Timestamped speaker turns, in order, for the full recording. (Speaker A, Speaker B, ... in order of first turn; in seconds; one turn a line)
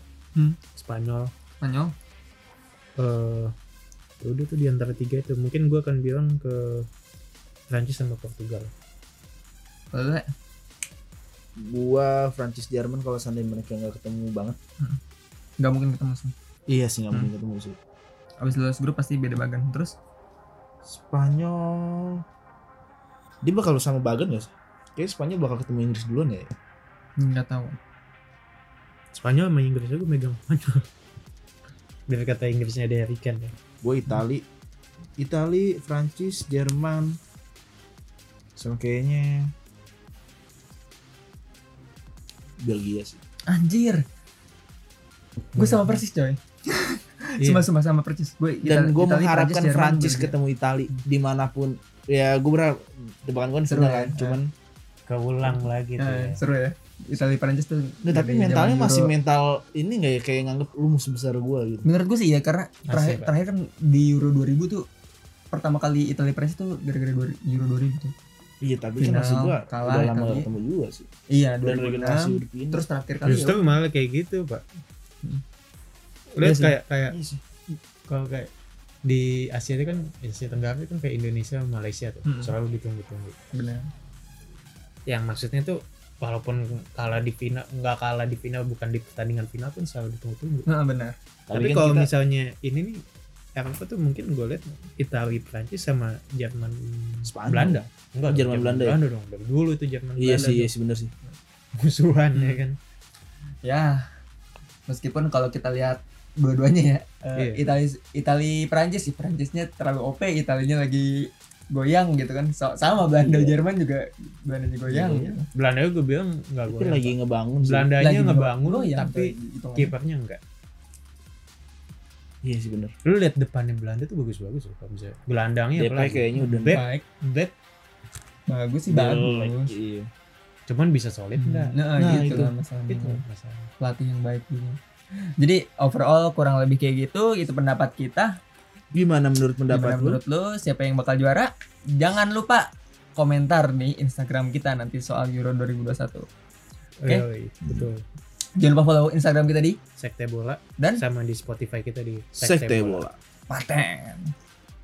Speaker A: 0.7-1.3
Speaker B: 1.6-1.9
Speaker A: 3.0-3.5
Speaker A: 4.2-6.9
Speaker A: 7.7-8.7
Speaker B: 9.9-10.3
Speaker C: 11.6-14.6
Speaker B: 15.6-16.3
Speaker C: 16.7-17.8
Speaker B: 18.4-20.0
Speaker C: 20.9-22.2
Speaker C: 23.4-26.5
Speaker B: 27.2-27.8
Speaker A: 29.1-30.9
Speaker A: 32.1-33.5
Speaker C: 33.8-34.5
Speaker C: 35.2-37.2
Speaker C: 38.6-39.5
Speaker C: 42.6-43.2
Speaker B: 43.5-44.0
Speaker B: 45.5-50.3
Speaker A: 45.6-46.0
Speaker A: 47.4-47.7
Speaker C: 48.6-54.5
Speaker B: 53.7-54.4
Speaker A: 55.1-56.4
Speaker B: 56.0-59.1
Speaker C: 58.0-61.9
Speaker B: 61.9-64.9
Speaker A: 62.9-63.3
Speaker B: 65.5-68.1
Speaker C: 68.6-71.1
Speaker B: 69.0-70.5
Speaker B: 71.3-73.6
Speaker C: 71.6-72.9
Speaker A: 73.2-74.8
Speaker A: 76.4-77.2
Speaker B: 76.4-76.8
Speaker A: 78.1-78.5
Speaker A: 79.0-83.4
Speaker B: 82.3-82.5
Speaker B: 83.5-83.9
Speaker A: 85.1-90.7
Speaker B: 90.7-91.2
Speaker C: 91.5-92.1
Speaker A: 91.5-93.0
Speaker A: 93.6-100.7
Speaker C: 97.3-99.0
Speaker C: 100.2-101.1
Speaker A: 101.8-102.8
Speaker B: 102.3-102.6
Speaker B: 103.6-104.1
Speaker B: 104.9-115.5
Speaker A: 107.4-107.6
Speaker C: 113.2-113.6
Speaker C: 114.9-115.4
Speaker A: 115.5-120.4
Speaker C: 116.7-118.4
Speaker B: 118.0-119.9
Speaker C: 122.4-122.9
Speaker A: 123.0-127.5
Speaker C: 125.8-126.8
Speaker B: 126.7-127.0
Speaker B: 128.5-129.8
Speaker C: 128.9-130.1
Speaker A: 130.7-133.7
Speaker B: 131.4-133.2
Speaker C: 132.0-132.5
Speaker B: 133.8-134.8
Speaker B: 135.4-138.4
Speaker C: 138.9-140.2
Speaker B: 139.7-146.3
Speaker A: 147.0-148.0
Speaker B: 147.1-147.9
Speaker B: 148.6-149.8
Speaker A: 150.0-153.1
Speaker B: 150.8-151.0
Speaker C: 152.4-153.2
Speaker B: 153.5-154.3